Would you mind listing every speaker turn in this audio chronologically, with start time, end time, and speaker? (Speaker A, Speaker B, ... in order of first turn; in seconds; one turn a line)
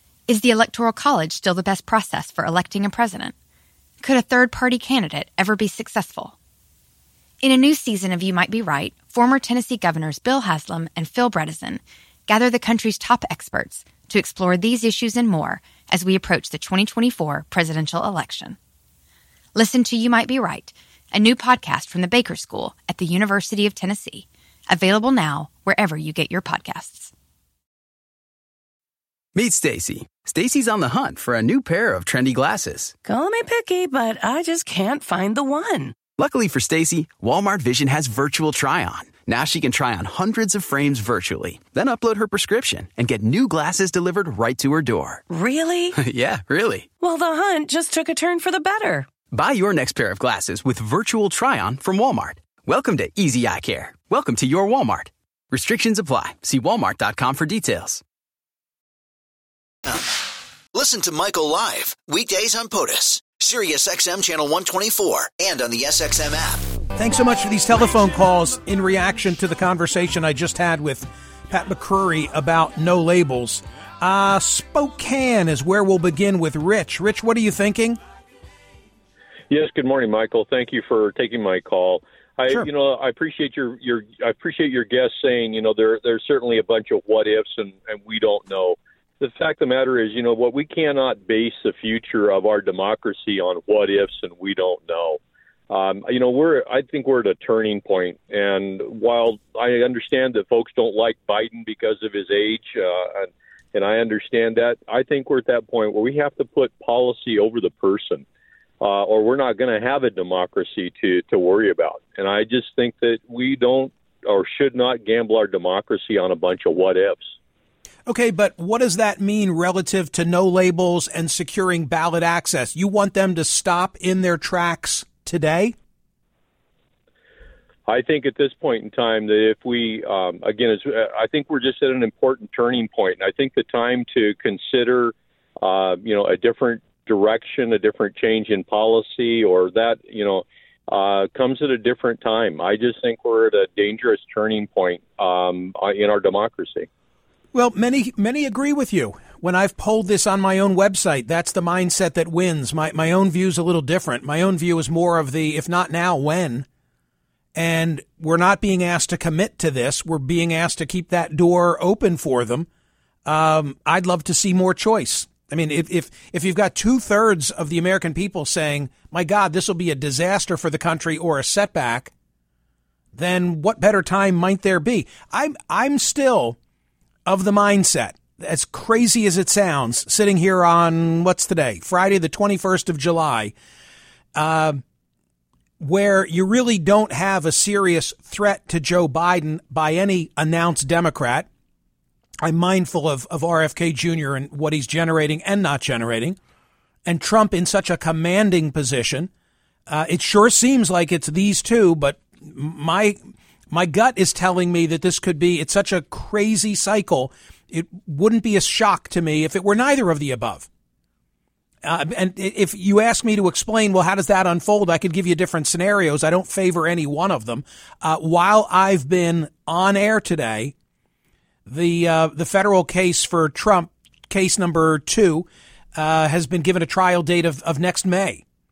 Speaker A: 0.3-3.3
Speaker A: 4.0-6.3
Speaker A: 7.4-18.6
Speaker A: 19.5-27.1
Speaker B: 29.3-32.9
Speaker C: 33.0-36.0
Speaker B: 36.1-45.2
Speaker C: 45.3-46.0
Speaker B: 45.9-46.9
Speaker C: 47.0-49.1
Speaker B: 49.3-58.0
Speaker D: 59.9-66.7
Speaker E: 66.9-78.0
Speaker F: 79.5-108.2
Speaker F: 108.8-117.3
Speaker E: 118.1-125.8
Speaker F: 127.8-146.9
Speaker E: 147.5-156.7
Speaker E: 157.5-162.7
Speaker E: 163.2-172.1
Speaker E: 173.1-176.6
Speaker E: 177.2-183.5
Speaker E: 184.3-184.8
Speaker E: 185.8-191.5
Speaker E: 192.4-196.4
Speaker E: 197.1-199.3
Speaker E: 199.9-210.7
Speaker E: 211.8-220.7
Speaker E: 221.7-228.4